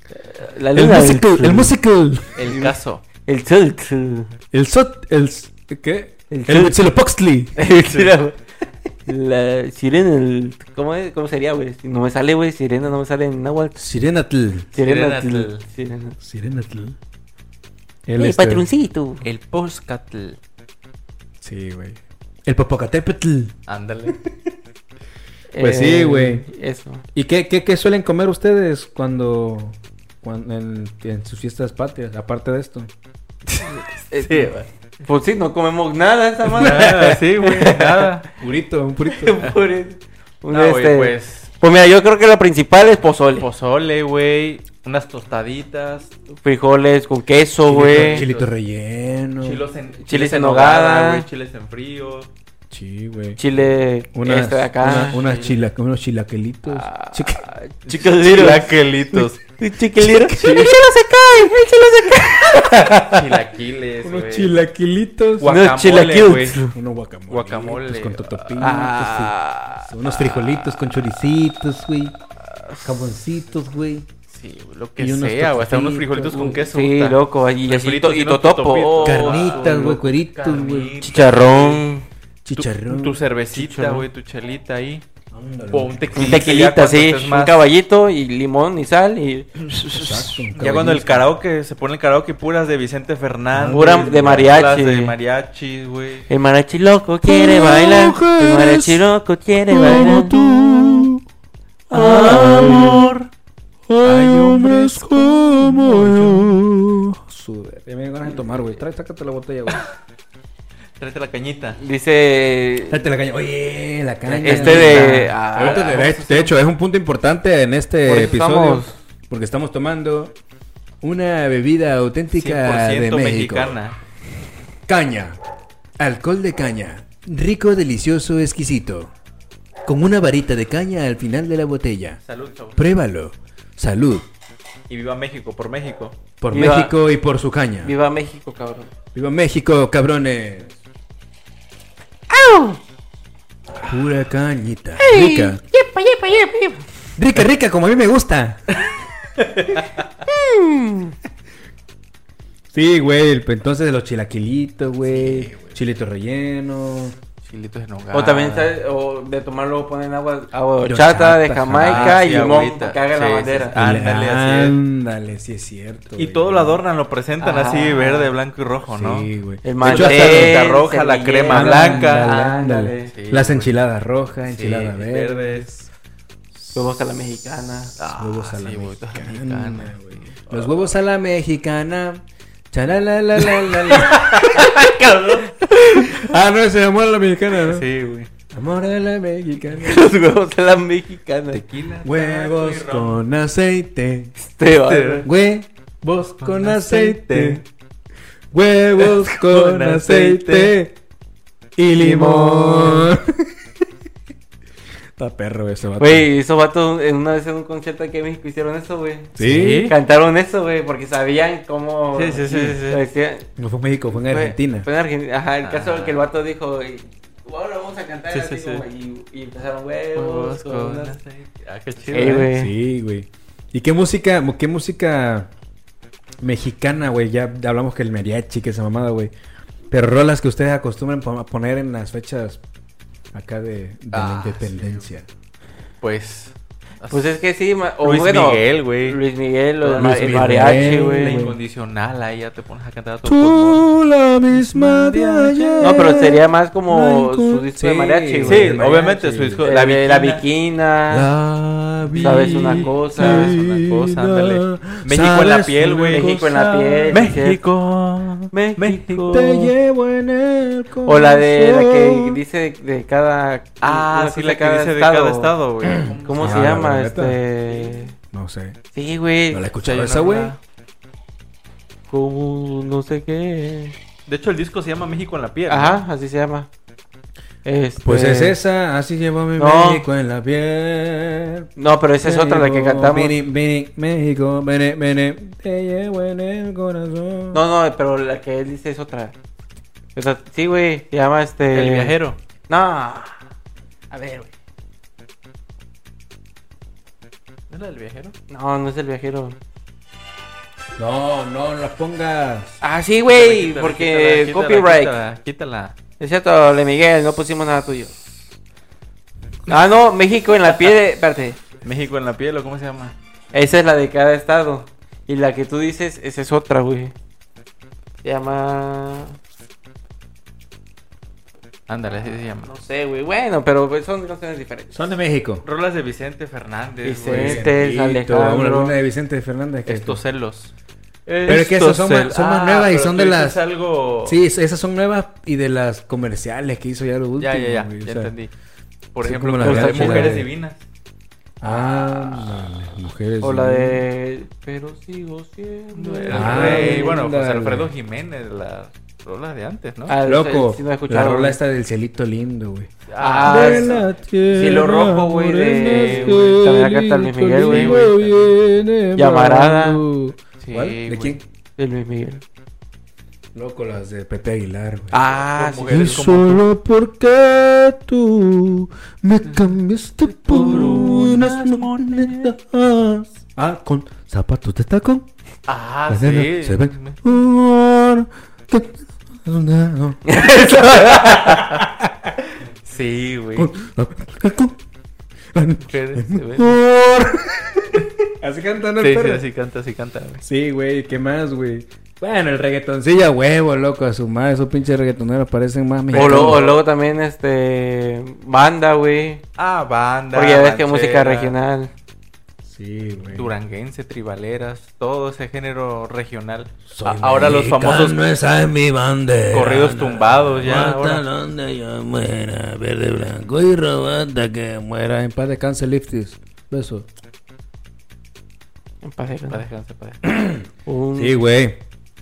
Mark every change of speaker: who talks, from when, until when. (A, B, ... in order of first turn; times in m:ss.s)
0:00.2-0:01.7 A
0:00.7-0:02.4 B
0:02.4-0:03.0 C
0:02.4-0:04.3 A
0:04.5-0:07.5 B
0:06.3-0:06.8 A
0:07.6-0:08.4 A
0:07.7-0:08.2 C
0:09.0-0:13.8 A
0:13.8-0:14.7 B
0:14.7-0:16.1 A
0:14.8-0:15.6 C
0:16.2-0:17.0 B
0:18.0-0:18.7 B
0:18.2-0:19.2 A
0:19.2-0:20.4 C
0:21.4-0:23.5 B
0:23.7-0:24.2 C
0:25.5-0:27.0 A
0:25.6-0:26.5 B
0:27.1-0:32.9 B
0:33.5-0:34.7 C
0:33.7-0:34.5 A
0:35.0-0:38.1 A
0:36.5-0:38.2 C
0:36.6-0:37.2 B
0:38.4-0:39.4 B
0:39.1-0:43.5 A
0:40.5-0:41.5 C
0:43.4-0:46.1 C
0:46.4-0:48.2 A
0:47.7-0:48.5 C
0:47.7-0:49.6 B
0:49.4-0:52.3 C
0:50.0-0:51.2 A
0:52.7-0:53.4 B
0:53.4-0:55.2 A
0:54.1-0:57.4 B
0:55.1-0:55.6 C
0:56.7-1:02.9 A
0:57.9-0:59.4 C
1:00.0-1:00.8 B
1:02.5-1:03.2 B
1:03.0-1:04.5 C
1:04.0-1:05.5 B
1:05.4-1:06.6 C
1:05.4-1:06.8 A
1:06.7-1:12.2 B
1:07.3-1:08.8 C
1:08.6-1:09.9 A
1:12.8-1:14.1 B
1:14.3-1:21.8 C
1:15.0-1:16.5 B
1:16.2-1:20.0 A
1:19.0-1:20.9 B
1:21.0-1:22.0 A
1:22.4-1:23.2 B
1:22.5-1:25.0 C
1:23.5-1:24.0 A
1:25.3-1:26.4 B
1:25.7-1:27.6 C
1:26.2-1:30.0 A
1:29.7-1:36.3 C
1:29.9-1:31.3 B
1:33.5-1:34.6 B
1:33.6-1:35.1 A
1:36.3-1:40.3 A
1:37.2-1:39.0 B
1:39.7-1:41.2 B
1:41.9-1:43.2 A
1:41.9-1:43.1 B
1:41.9-1:43.0 C
1:43.9-1:49.8 B
1:44.0-1:46.6 C
1:51.0-1:51.8 C
1:51.8-1:53.0 A
1:52.9-2:00.3 B
1:54.2-1:55.8 A
1:54.4-1:56.6 C
1:58.0-1:58.9 A
2:01.0-2:03.8 B
2:02.3-2:04.0 C
2:04.9-2:05.4 B
2:06.0-2:09.1 B
2:09.8-2:12.2 B
2:12.2-2:12.8 C
2:12.8-2:14.2 B
2:14.9-2:16.2 C
2:16.4-2:17.9 B
2:16.5-2:16.9 A
2:17.8-2:18.9 A
2:19.1-2:20.8 B
2:22.3-2:22.8 A
2:23.8-2:25.6 B
2:25.0-2:26.8 A
2:27.2-2:28.7 B
2:30.2-2:31.1 A
2:32.7-2:37.2 B
2:35.2-2:35.7 C
2:37.4-2:38.7 C
2:38.1-2:43.8 A
2:40.8-2:42.2 B
2:41.8-2:44.8 C
2:43.7-2:46.8 B
2:46.1-2:49.3 C
2:47.4-2:48.4 A
2:48.9-2:50.6 B
2:49.6-2:53.1 A
2:49.8-2:52.4 C
2:51.5-2:55.7 B
2:53.1-2:53.7 C
2:54.4-2:55.8 C
2:56.6-2:56.9 B
2:56.7-2:58.0 A
2:58.0-3:00.9 C
2:58.0-3:04.7 B
3:03.9-3:06.1 A
3:06.1-3:07.8 B
3:07.6-3:08.3 C
3:08.5-3:10.1 B
3:09.8-3:11.6 A
3:11.5-3:13.2 C
3:12.0-3:14.3 B
3:14.4-3:15.3 A
3:14.8-3:15.3 C
3:15.2-3:17.6 B
3:16.4-3:17.6 C
3:18.5-3:21.0 B
3:19.0-3:20.7 C
3:21.8-3:23.4 B
3:22.0-3:23.1 A
3:25.2-3:26.3 B
3:26.0-3:33.5 A
3:29.4-3:29.9 B
3:29.4-3:29.9 C
3:32.1-3:33.0 C
3:33.6-3:34.9 B
3:34.1-3:41.2 A
3:35.6-3:36.2 C
3:38.3-3:38.8 C
3:40.1-3:42.5 C
3:42.1-3:42.7 A
3:42.4-3:45.5 B
3:46.4-3:49.3 B
3:49.9-3:52.6 B
3:53.3-3:55.2 B
3:54.1-3:55.1 C
3:56.0-3:57.5 C
3:57.1-4:01.4 A
3:58.0-3:59.2 C
3:59.8-4:03.9 C
4:00.0-4:01.6 B
4:03.2-4:09.7 B
4:04.5-4:06.0 C
4:05.8-4:08.8 A
4:08.5-4:10.4 C
4:09.6-4:11.3 A
4:11.1-4:17.3 B
4:12.0-4:16.5 C
4:12.2-4:13.6 A
4:16.1-4:17.6 A
4:17.1-4:19.4 C
4:18.5-4:19.7 A
4:19.3-4:22.4 B
4:21.0-4:25.5 A
4:23.8-4:26.8 C
4:25.8-4:27.4 B
4:26.2-4:28.1 A
4:27.7-4:28.0 C
4:28.3-4:28.8 B
4:28.9-4:29.6 A
4:29.5-4:30.5 B
4:29.8-4:30.6 C
4:32.1-4:33.9 A
4:34.3-4:36.0 C
4:35.7-4:36.7 A
4:37.6-4:38.6 A
4:38.0-4:41.7 B
4:39.6-4:40.0 A
4:41.8-4:43.3 A
4:42.2-4:47.6 B
4:47.5-4:49.3 A
4:50.1-4:52.2 A
4:51.7-4:52.4 C
4:52.7-4:53.4 A
4:54.1-4:54.5 A
4:57.7-4:58.3 C
4:58.5-4:59.6 A
5:01.0-5:02.8 B
5:02.8-5:05.1 A
5:03.2-5:05.9 C
5:06.2-5:08.1 A
5:09.7-5:11.6 A
5:11.8-5:13.1 C
5:13.5-5:17.1 A
5:18.2-5:19.4 A
5:21.9-5:22.7 C
5:22.2-5:25.1 A
5:24.9-5:25.6 B
5:25.6-5:27.7 C
5:27.0-5:28.9 A
5:27.3-5:30.2 B
5:29.8-5:30.7 C
5:31.2-5:34.4 C
5:31.4-5:33.6 B
5:34.2-5:38.3 B
5:37.4-5:38.5 C
5:39.1-5:40.8 C
5:39.2-5:40.5 B
5:39.6-5:40.4 A
5:41.6-5:44.0 B
5:41.6-5:42.5 A
5:43.4-5:47.2 A
5:45.9-5:50.1 C
5:46.3-5:47.9 B
5:50.1-5:51.6 A
5:50.2-5:52.9 B
5:53.1-5:54.0 C
5:53.2-5:58.1 A
5:53.4-6:01.4 B
5:55.8-5:56.6 C
5:57.7-5:58.5 C
5:59.1-6:00.0 A
6:00.6-6:01.4 C
6:01.8-6:02.4 A
6:03.5-6:05.2 B
6:05.1-6:06.4 A
6:05.3-6:06.6 C
6:05.9-6:15.2 B
6:10.5-6:12.4 C
6:10.5-6:11.4 A
6:15.7-6:17.2 C
6:16.1-6:22.4 B
6:20.2-6:21.7 A
6:22.8-6:23.7 C
6:23.6-6:24.8 B
6:25.5-6:29.4 B
6:25.9-6:26.2 C
6:26.3-6:26.7 A
6:29.0-6:30.4 C
6:30.4-6:36.7 B
6:36.1-6:36.8 C
6:36.1-6:39.4 A
6:39.6-6:41.5 C
6:40.3-6:41.9 A
6:42.6-6:43.5 B
6:43.3-6:48.2 C
6:46.9-6:57.1 B
6:49.5-6:51.2 C
6:59.0-6:59.6 A
6:59.5-7:00.2 C
7:00.2-7:01.8 B
7:00.8-7:01.4 A